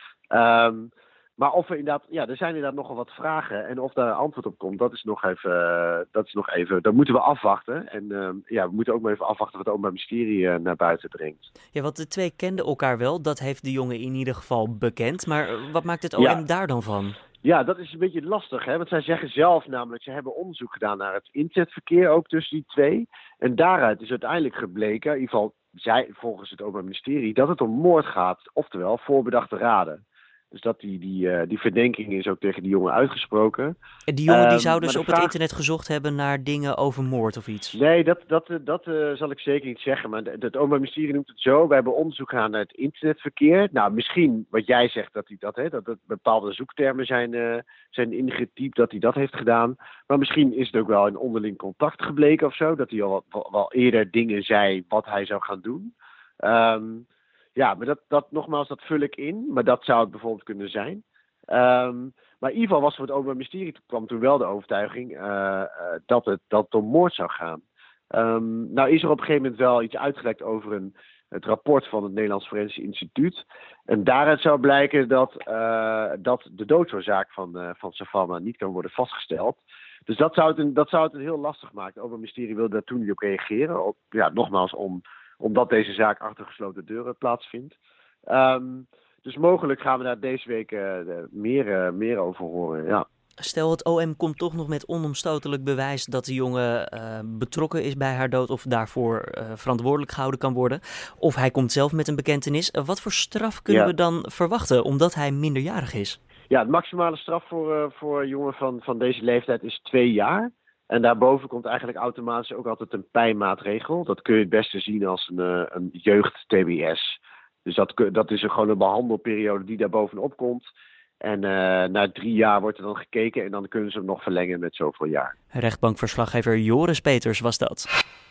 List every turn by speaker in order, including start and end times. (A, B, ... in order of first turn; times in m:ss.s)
0:00.3-0:11.4 A
0:11.7-0:17.2 B
0:16.2-0:16.4 A
0:17.4-0:33.7 A
0:34.1-0:37.8 B
0:34.3-0:35.3 A
0:37.7-0:57.0 A
0:57.6-1:27.8 A
1:28.3-1:33.0 A
1:33.4-1:46.2 B
1:43.7-1:43.9 A
1:46.5-2:00.7 A
2:01.2-2:05.3 A
2:05.5-2:07.9 B